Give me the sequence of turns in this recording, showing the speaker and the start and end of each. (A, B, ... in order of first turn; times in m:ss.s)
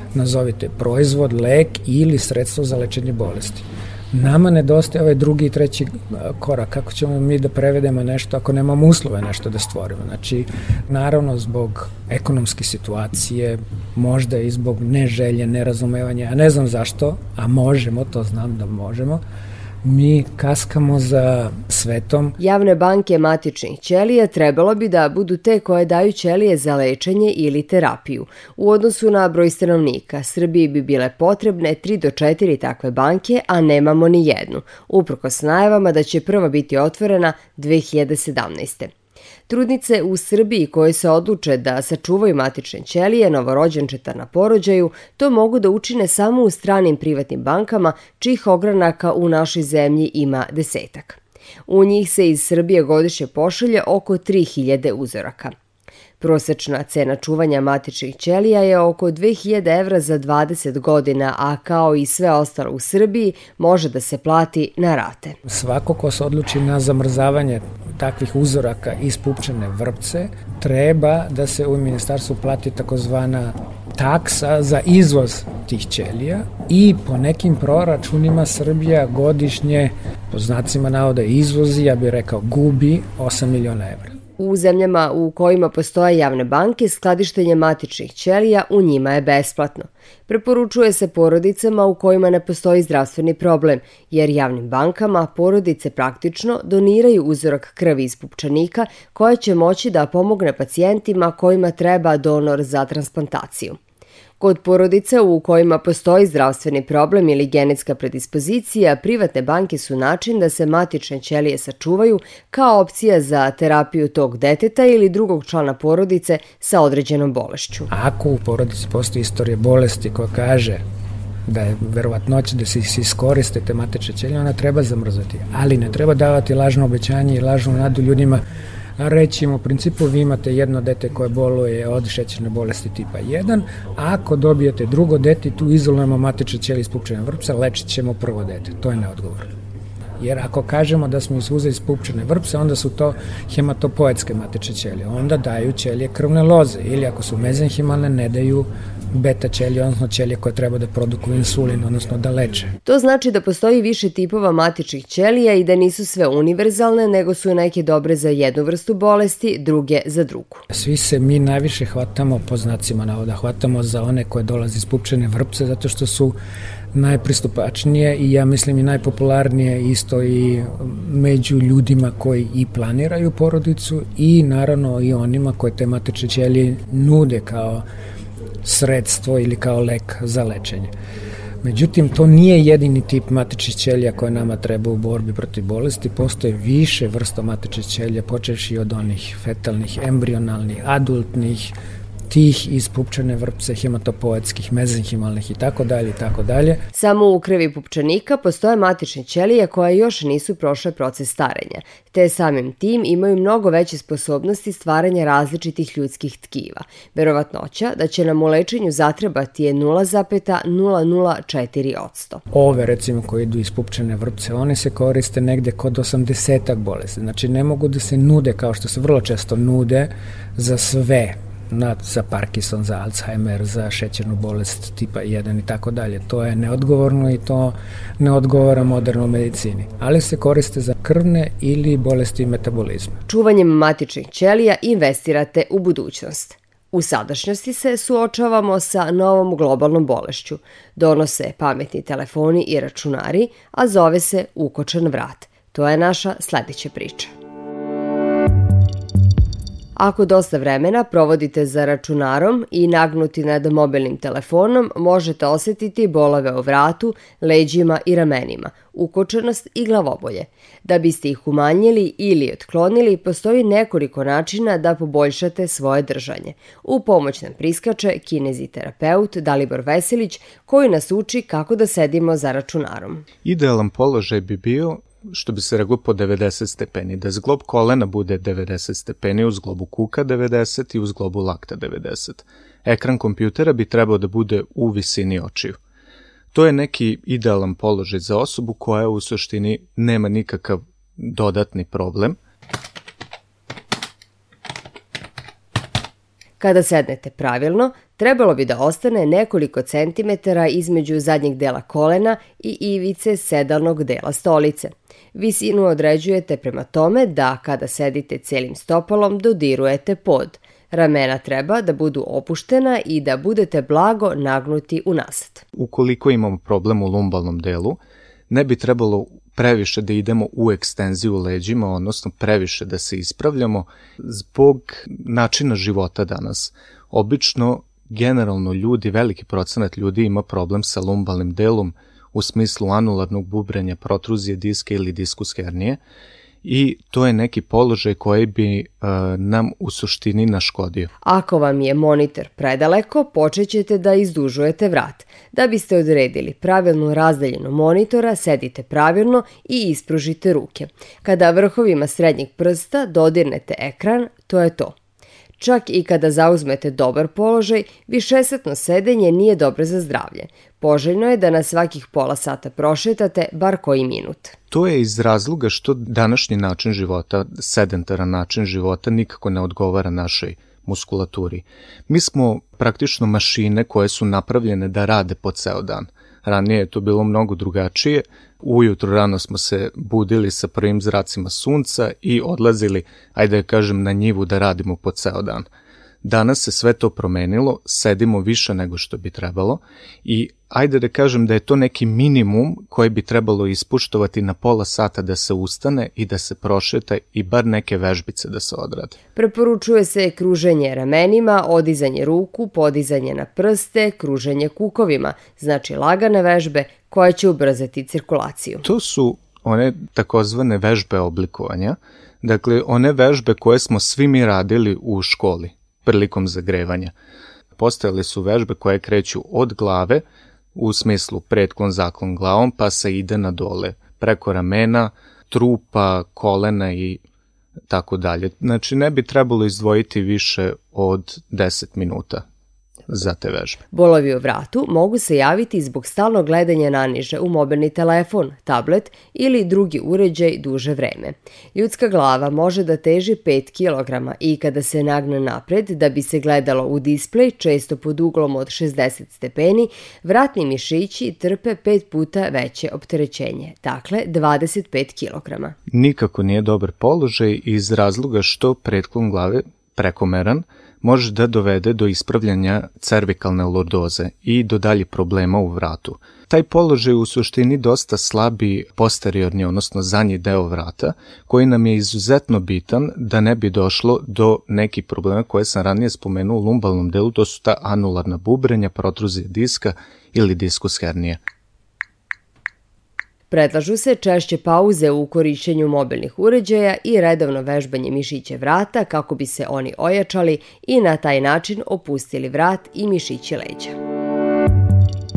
0:00.1-0:19.2 A
0:19.8-0:22.4 A
0:22.4-0:38.9 B
0:39.5-0:55.5 B
0:56.2-1:05.4 B
1:05.5-1:24.1 A
1:24.4-1:43.8 B
1:44.4-1:57.9 B
1:57.9-2:00.8 A
2:01.5-2:08.4 A
2:09.0-2:19.5 A
2:20.2-2:32.7 A
2:32.8-2:40.6 B
2:40.7-2:46.3 A
2:46.9-2:57.8 A
2:58.6-3:00.9 A
3:01.6-3:11.7 A
3:12.3-3:16.8 A
3:16.9-3:32.4 B
3:32.5-3:53.2 A
3:53.3-4:07.3 B
4:10.0-4:33.2 B
4:33.4-4:45.8 C
4:46.5-4:52.4 C
4:56.6-5:15.6 B
5:15.8-5:18.0 C
5:18.5-5:36.0 C
5:36.6-5:41.1 C
5:41.2-5:55.0 B
5:55.6-6:04.6 B
6:04.7-6:25.7 C
6:26.2-6:39.2 C
6:39.4-6:48.8 B
6:48.8-6:57.1 C
6:57.8-7:00.2 C
7:00.8-7:07.2 C
7:07.9-7:12.4 C
7:13.1-7:13.8 C
7:13.9-7:35.8 B
7:35.9-8:01.4 C
8:03.5-8:14.0 B